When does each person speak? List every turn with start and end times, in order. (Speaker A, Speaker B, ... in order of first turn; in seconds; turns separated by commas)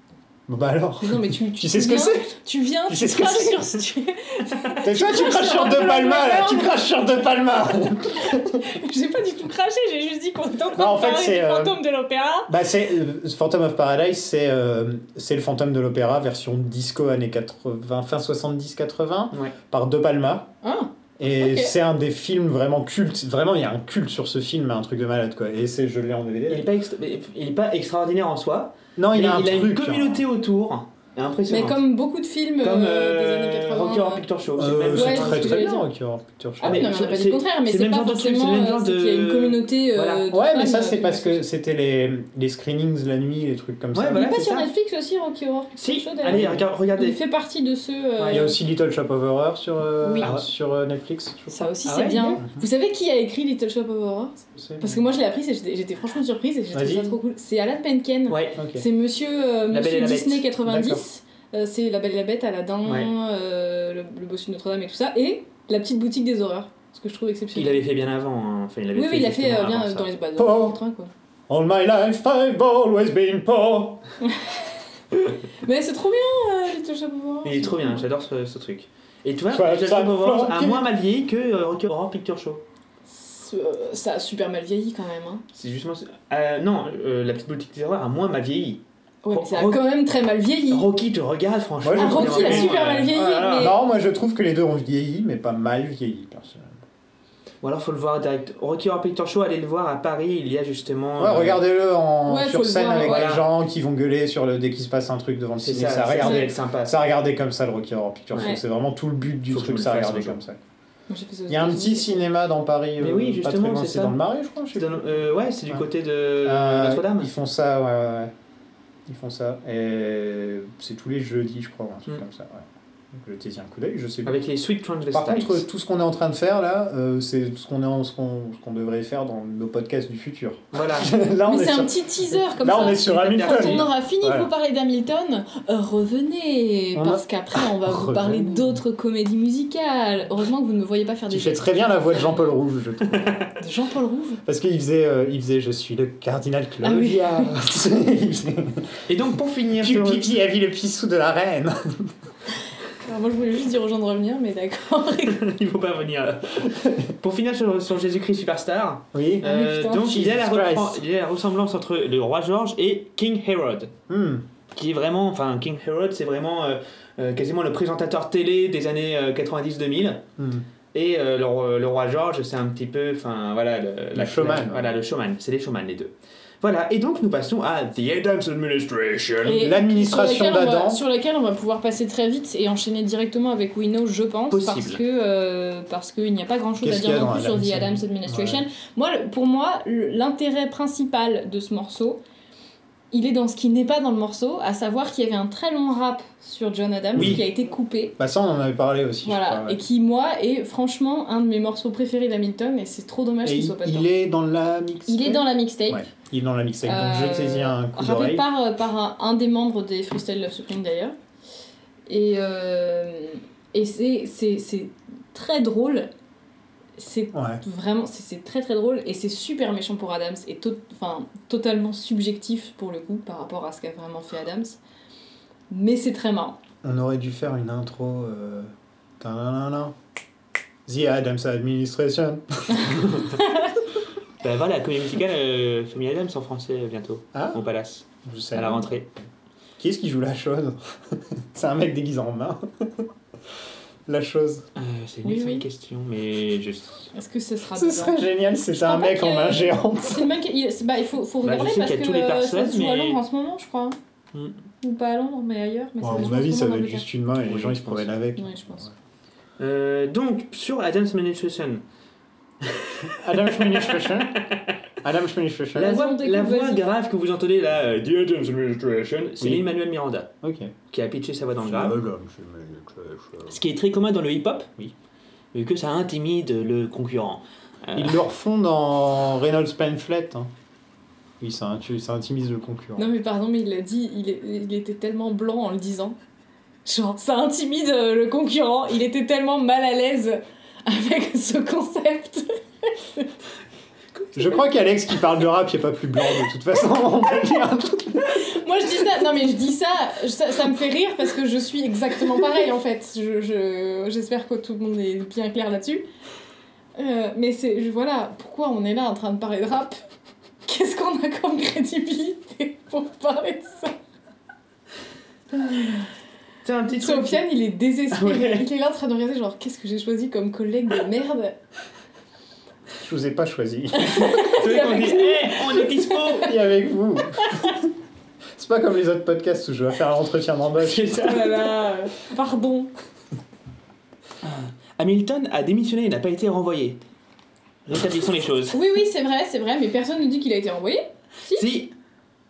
Speaker A: 0.5-2.3, Speaker B: 1.0-6.8, Speaker A: 2.9-3.8, Speaker A: 4.8-8.7, Speaker B: 8.3-12.5, Speaker A: 10.7-11.8, Speaker A: 12.5-20.5, Speaker B: 20.6-21.7, Speaker A: 21.2-26.7, Speaker C: 26.5-31.8, Speaker A: 29.0-30.2, Speaker B: 31.5-34.2, Speaker C: 32.6-35.7, Speaker A: 34.6-36.9, Speaker B: 34.9-35.9, Speaker B: 36.6-41.4, Speaker C: 36.6-40.3, Speaker A: 40.3-44.3, Speaker C: 43.9-44.7, Speaker B: 44.1-48.6, Speaker C: 45.8-47.2, Speaker A: 46.3-46.6, Speaker C: 48.2-48.5, Speaker A: 48.3-51.7, Speaker B: 50.0-50.3, Speaker C: 50.2-50.5, Speaker B: 51.5-67.8, Speaker C: 51.8-52.4, Speaker A: 54.5-55.0, Speaker A: 56.7-57.2, Speaker C: 58.3-58.6, Speaker A: 58.6-58.8, Speaker C: 59.7-60.5, Speaker A: 60.6-61.0, Speaker C: 62.8-63.1, Speaker C: 67.5-70.1, Speaker B: 68.9-71.1, Speaker A: 70.4-70.8, Speaker A: 71.5-74.0, Speaker B: 74.2-74.5, Speaker B: 75.6-78.0, Speaker C: 77.4-82.6, Speaker A: 79.5-80.9, Speaker B: 83.1-85.4, Speaker C: 85.5-89.9, Speaker B: 89.2-90.9, Speaker C: 90.7-93.7, Speaker A: 91.8-92.8, Speaker B: 92.0-93.8, Speaker A: 93.5-96.8, Speaker C: 97.6-101.6, Speaker A: 101.2-110.6, Speaker B: 102.2-103.3, Speaker C: 103.0-103.5, Speaker C: 105.6-107.0, Speaker B: 106.2-106.5, Speaker C: 109.5-110.4, Speaker B: 111.1-112.2, Speaker A: 111.5-115.1, Speaker C: 113.0-114.2, Speaker C: 114.7-117.3, Speaker A: 116.4-118.3, Speaker A: 119.1-124.4, Speaker C: 124.2-125.6, Speaker A: 125.1-134.5, Speaker C: 130.7-131.1, Speaker B: 131.5-142.2, Speaker C: 132.8-133.9, Speaker A: 136.9-138.8, Speaker A: 141.3-143.3, Speaker B: 143.6-144.4, Speaker A: 144.4-149.0, Speaker B: 146.8-147.5, Speaker C: 149.1-150.3, Speaker A: 149.8-152.1, Speaker B: 153.0-155.4, Speaker C: 155.3-163.9, Speaker A: 159.1-159.4, Speaker B: 159.4-160.2, Speaker A: 160.0-161.0, Speaker A: 164.1-164.4, Speaker C: 164.7-170.2, Speaker A: 170.4-170.6, Speaker C: 170.9-179.7, Speaker A: 174.1-174.9, Speaker B: 179.4-192.2, Speaker A: 179.5-181.0, Speaker C: 184.5-185.0, Speaker A: 186.8-188.6, Speaker B: 193.1-198.2, Speaker A: 197.2-197.4, Speaker A: 198.2-199.8, Speaker B: 199.2-204.1, Speaker A: 203.4-208.5, Speaker B: 205.1-206.1, Speaker B: 206.8-211.1, Speaker B: 212.1-216.1, Speaker B: 217.0-224.8, Speaker A: 217.3-217.6, Speaker B: 225.7-226.6, Speaker A: 226.8-229.9, Speaker A: 230.9-233.1, Speaker C: 234.4-239.1, Speaker A: 237.3-237.6, Speaker A: 238.2-239.0, Speaker A: 239.8-243.1, Speaker A: 244.1-244.6, Speaker C: 244.8-247.1, Speaker B: 245.2-245.7, Speaker B: 247.1-254.0, Speaker A: 247.7-250.3, Speaker C: 251.4-253.2, Speaker B: 254.8-257.1, Speaker A: 256.0-258.9, Speaker C: 257.4-258.1, Speaker B: 258.4-258.9, Speaker C: 259.6-261.8, Speaker C: 262.6-264.7, Speaker A: 263.1-264.5, Speaker A: 265.0-266.0, Speaker C: 265.7-270.3, Speaker B: 265.8-266.9, Speaker A: 269.4-269.7, Speaker A: 270.4-270.7, Speaker C: 270.9-272.0, Speaker A: 271.6-273.5, Speaker C: 273.5-274.7, Speaker C: 275.5-278.2, Speaker A: 277.9-280.5, Speaker A: 281.4-283.1, Speaker B: 283.0-286.2, Speaker B: 286.8-293.3, Speaker A: 294.3-298.4, Speaker B: 298.4-306.0, Speaker B: 306.9-310.0, Speaker B: 310.6-313.9, Speaker C: 315.5-316.1, Speaker C: 316.6-317.4, Speaker B: 317.0-321.6, Speaker C: 318.1-318.6, Speaker A: 323.0-324.4, Speaker B: 323.9-326.4, Speaker C: 324.2-326.6, Speaker A: 326.4-327.9, Speaker B: 327.3-327.7, Speaker A: 328.6-331.4, Speaker C: 330.8-331.7, Speaker B: 331.2-332.9, Speaker C: 334.4-337.0, Speaker C: 337.9-338.8, Speaker B: 338.7-341.7, Speaker C: 341.5-341.9